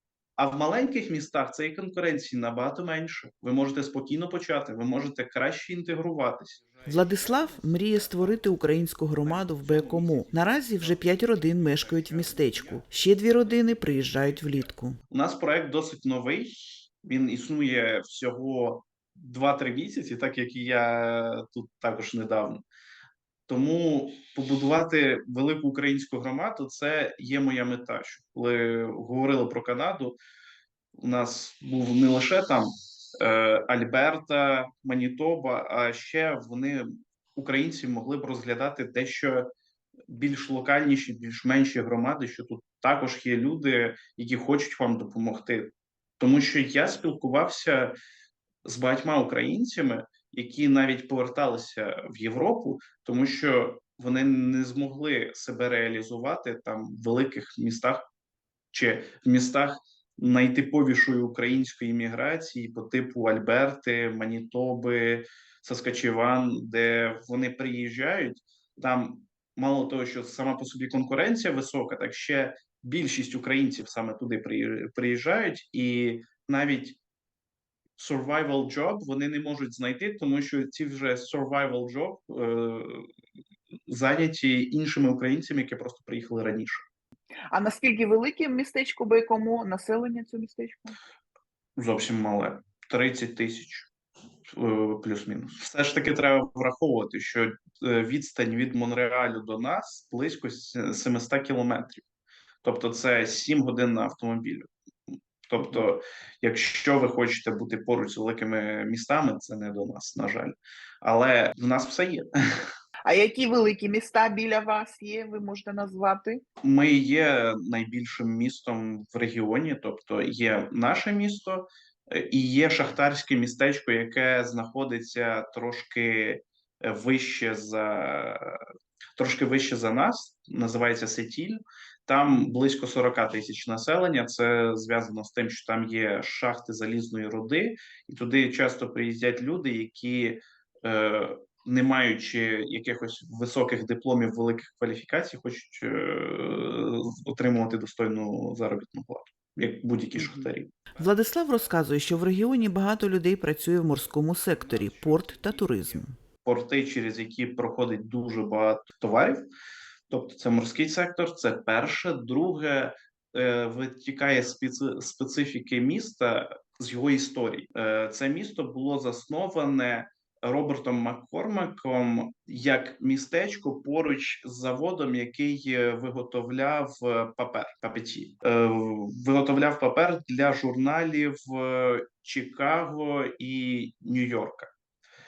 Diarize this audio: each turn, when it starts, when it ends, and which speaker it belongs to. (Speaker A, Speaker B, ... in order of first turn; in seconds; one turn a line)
Speaker A: 0.4-8.6
Speaker B: 6.8-15.0
Speaker A: 9.2-12.8
Speaker A: 13.4-22.6
Speaker A: 23.5-30.2
Speaker A: 31.0-39.5
Speaker A: 40.1-47.9
Speaker A: 48.6-58.0
Speaker A: 58.7-77.0
Speaker A: 78.0-83.1
Speaker A: 83.9-86.8
Speaker C: 87.5-91.0
Speaker A: 91.8-93.9
Speaker A: 94.5-102.0
Speaker A: 102.6-104.7
Speaker A: 105.5-112.7
Speaker C: 113.0-116.4
Speaker A: 116.6-128.6
Speaker A: 129.2-151.0
Speaker C: 150.2-150.5
Speaker B: 151.0-156.1
Speaker A: 151.8-152.6
Speaker A: 154.1-159.4
Speaker A: 160.1-184.7